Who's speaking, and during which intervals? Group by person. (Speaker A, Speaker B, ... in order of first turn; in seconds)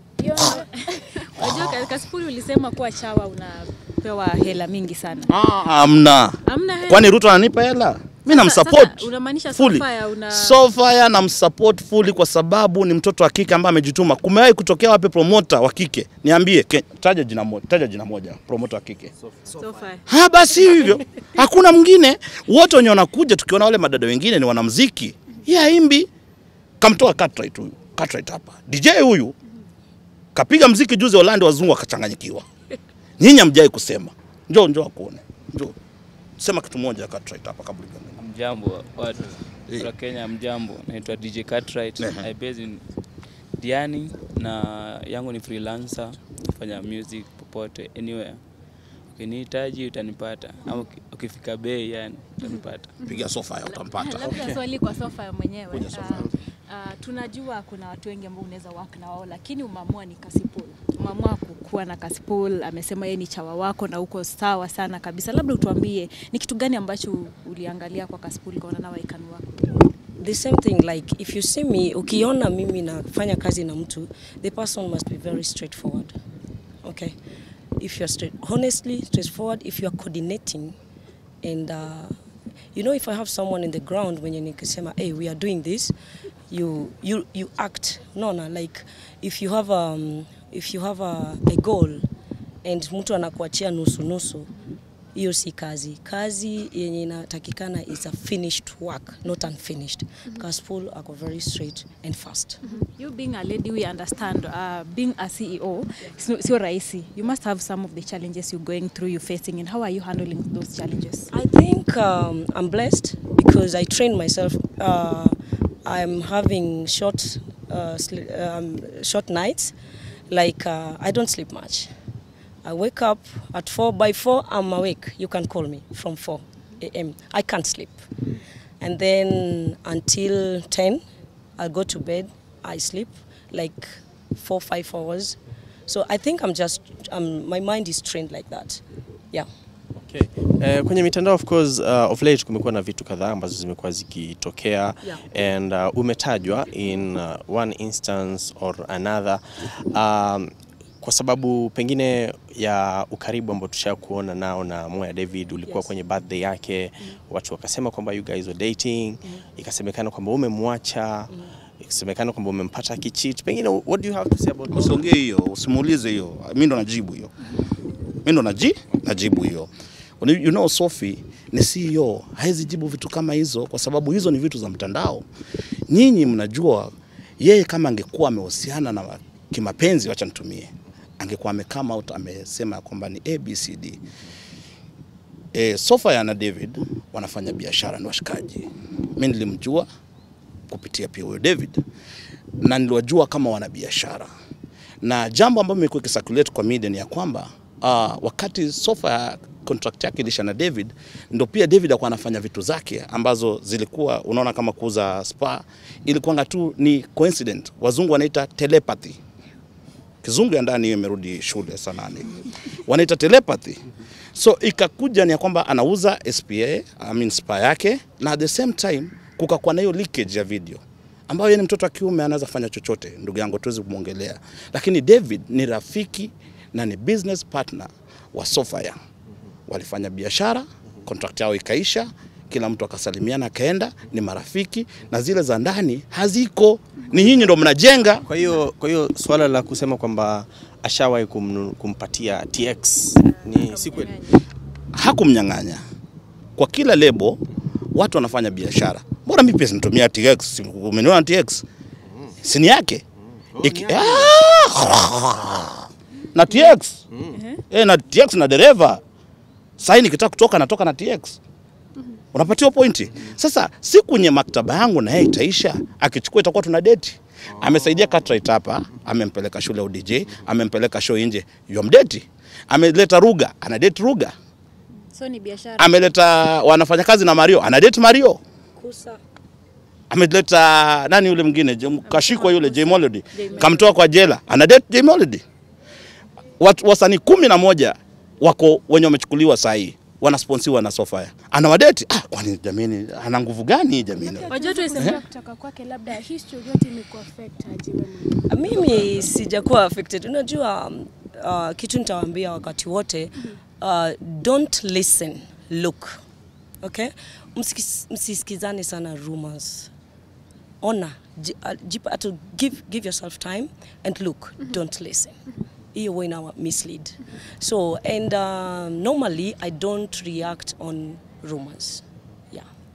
Speaker A: 0.2-1.1, 294.2-298.5
Speaker B: 0.4-5.3, 6.5-7.1, 8.3-10.6, 19.5-20.1, 20.7-21.0, 53.7-69.7, 102.7-111.3, 243.3-244.4, 257.3-257.6, 275.1-275.9, 282.1-283.9, 294.5-295.2
Speaker C: 1.4-1.9, 5.3-19.1, 20.1-26.1, 26.8-29.4, 30.4-32.5, 33.2-35.8, 36.4-38.2, 42.0-42.3, 53.0-54.6, 55.7-56.3, 164.7-167.3, 168.2-169.7, 170.2-175.2, 175.9-184.0, 185.5-189.9, 190.7-191.8, 192.6-194.3, 195.0-209.2, 210.2-213.8, 214.3-229.0, 229.7-238.2, 244.9-245.8, 246.6-247.4, 247.9-251.7, 252.4-253.0, 253.6-257.0, 257.7-259.0, 259.8-261.4, 262.3-274.3, 275.8-278.4, 280.1-285.4, 286.6-295.1
Speaker D: 19.2-19.9, 139.9-165.0, 238.2-244.2, 252.1-252.3, 253.5-254.3, 257.1-257.4, 267.5-268.3
Speaker E: 38.2-42.8, 43.6-48.4, 49.1-53.1
Speaker F: 70.2-76.1, 76.8-77.2, 77.8-80.8, 81.4-82.1, 82.8-85.9, 86.5-92.0, 92.6-94.5, 95.2-102.6, 111.3-119.7, 120.3-121.9, 122.6-128.1, 128.8-131.0, 131.6-139.5, 278.8-279.2, 298.5-306.2, 306.8-309.9, 310.8-315.3, 315.9-322.7